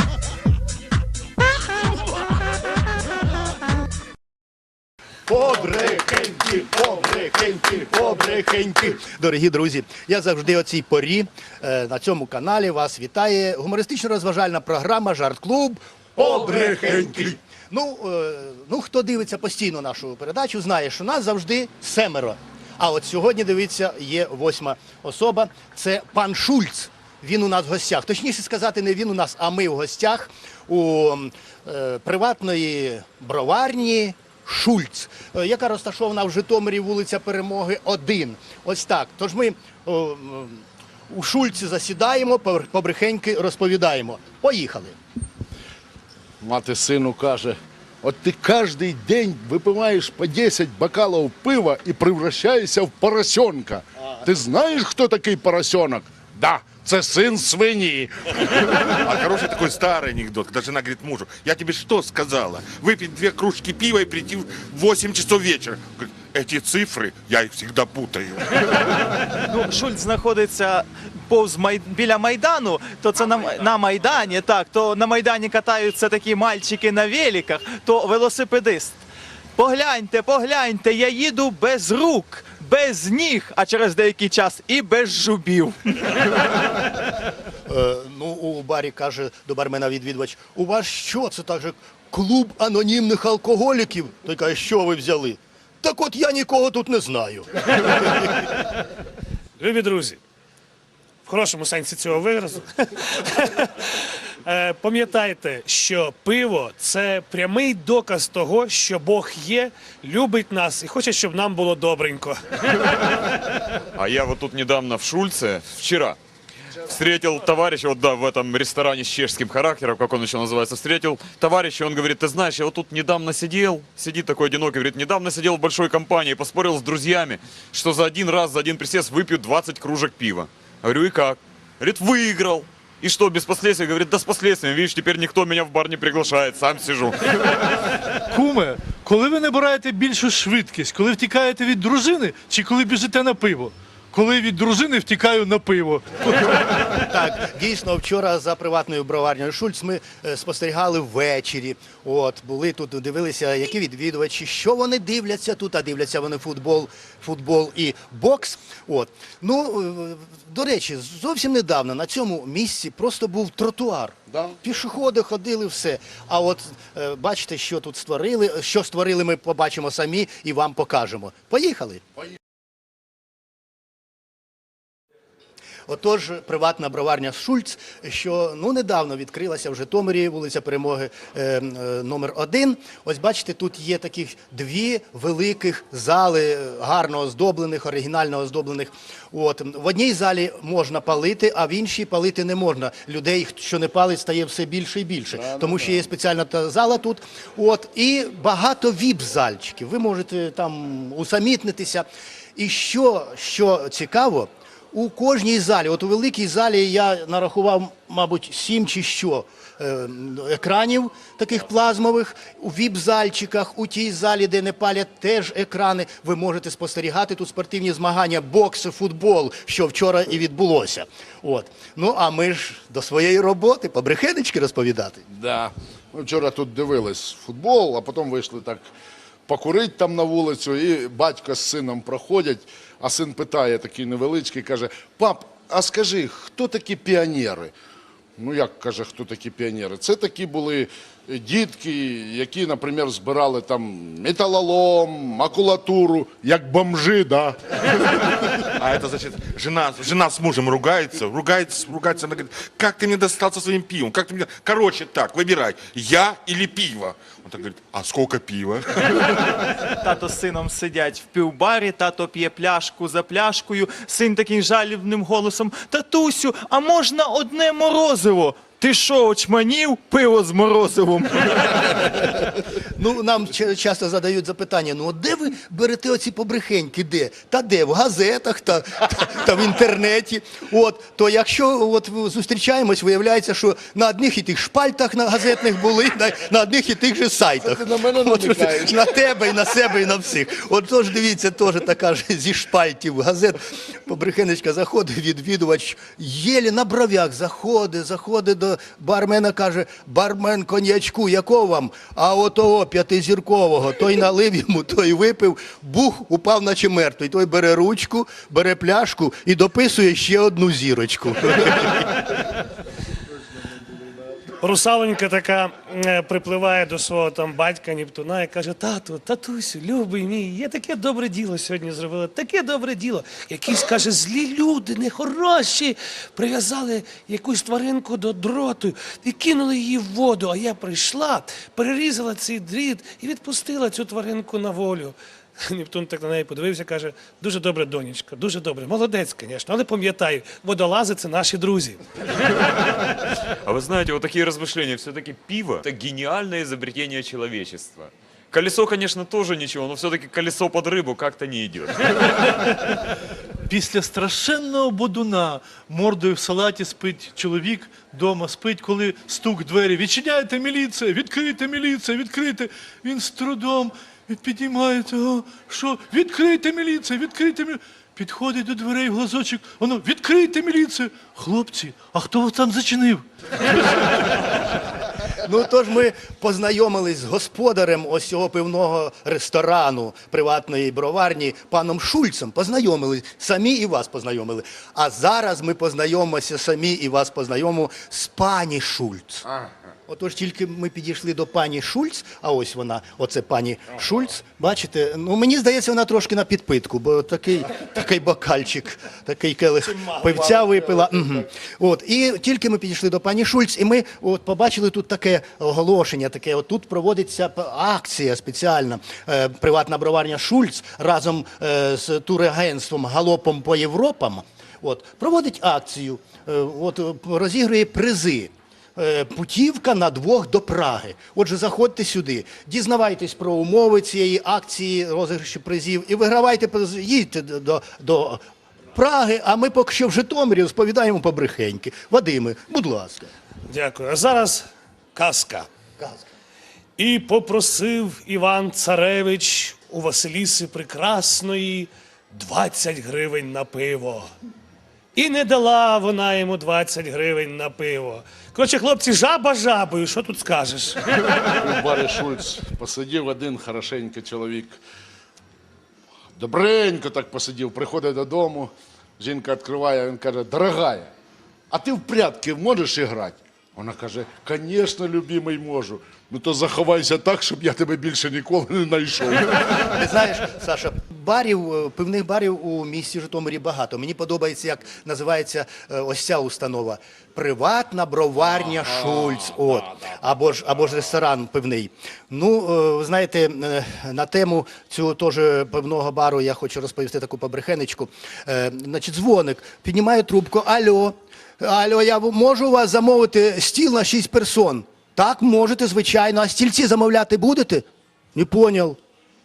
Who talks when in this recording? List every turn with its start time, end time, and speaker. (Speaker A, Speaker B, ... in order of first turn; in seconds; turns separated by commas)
Speaker A: 5.3-45.0, Speaker B: 16.5-17.3, Speaker B: 46.4-58.3, Speaker C: 58.7-69.0, Speaker D: 69.5-79.0, Speaker D: 79.6-86.1, Speaker A: 87.7-98.2, Speaker E: 99.6-100.2, Speaker E: 101.2-112.4, Speaker F: 113.9-116.2, Speaker F: 116.8-137.3, Speaker G: 138.3-146.2, Speaker A: 146.3-172.0, Speaker A: 175.9-225.2, Speaker B: 195.3-196.1, Speaker B: 225.3-228.8, Speaker B: 229.5-237.7, Speaker B: 238.4-247.6, Speaker C: 248.8-259.7, Speaker D: 260.0-272.3, Speaker A: 272.9-312.3, Speaker B: 287.6-289.1, Speaker E: 314.6-342.0, Speaker F: 343.6-352.5, Speaker G: 353.7-373.2, Speaker A: 375.4-389.5, Speaker A: 390.1-433.3, Speaker E: 433.7-435.7, Speaker A: 436.0-436.2, Speaker E: 437.0-444.3, Speaker E: 445.2-451.0, Speaker B: 451.6-454.8, Speaker B: 456.4-461.1, Speaker B: 461.7-469.9, Speaker A: 469.9-499.0